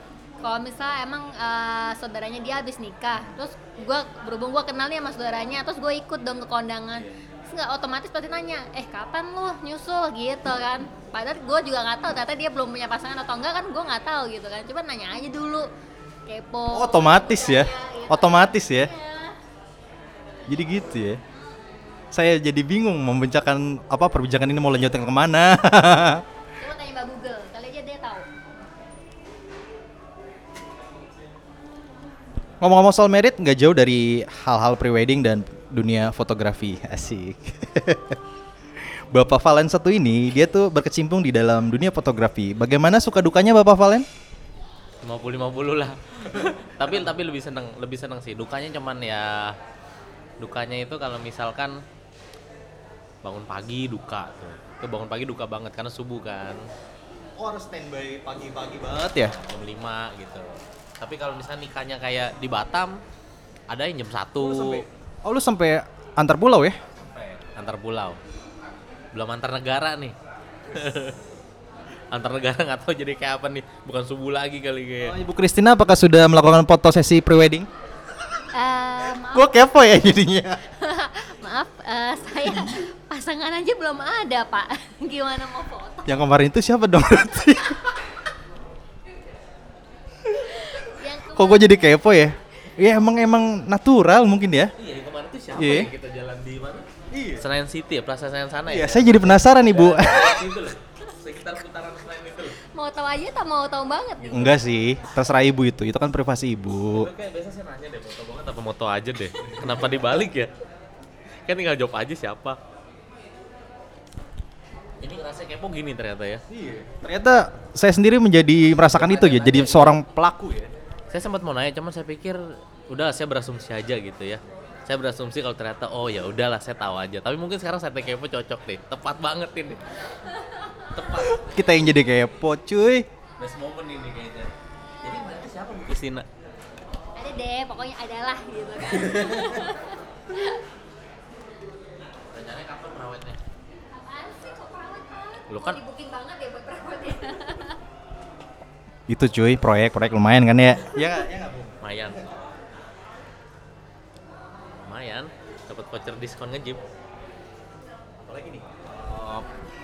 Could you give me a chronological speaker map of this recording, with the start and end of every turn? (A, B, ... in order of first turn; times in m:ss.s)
0:00.4-0:15.7 A
0:06.9-0:07.3 B
0:16.2-0:19.4 A
0:16.7-0:18.9 C
0:20.5-0:21.2 C
0:21.3-0:21.8 A
0:22.1-0:26.2 C
0:26.6-0:28.3 A
0:32.6-0:38.2 C
0:39.1-0:44.0 C
0:45.0-0:49.5 B
0:50.4-0:51.8 B
0:53.2-0:56.6 B
0:57.4-0:59.3 C
0:59.2-1:03.0 B
1:03.7-1:04.8 B
1:04.4-1:06.8 C
1:07.0-1:08.2 B
1:09.1-1:10.2 B
1:10.7-1:11.2 B
1:12.1-1:15.2 B
1:15.0-1:17.7 C
1:18.5-1:19.6 A
1:19.2-1:20.6 C
1:20.7-1:26.2 A
1:26.0-1:27.8 C
1:30.4-1:32.0 A
1:31.3-1:34.7 C
1:34.8-1:36.9 B
1:35.5-1:35.9 C
1:37.1-1:37.4 C
1:37.4-1:42.6 B
1:38.6-1:40.5 C
1:42.7-1:44.6 A
1:44.3-1:47.1 C
1:46.9-1:50.5 B
1:49.5-1:49.9 C
1:51.4-1:52.6 B
1:55.0-1:56.4 B
1:56.5-2:00.7 C
1:58.8-2:00.0 B
2:01.1-2:09.8 B
2:10.4-2:10.7 A
2:10.9-2:11.9 B
2:11.2-2:13.1 C
2:13.4-2:16.2 B
2:17.2-2:20.6 A
2:22.3-2:23.4 B
2:23.9-2:27.8 A
2:25.5-2:25.8 B
2:29.1-2:31.8 C
2:31.8-2:32.3 B
2:34.8-2:36.8 B
2:38.2-2:39.4 C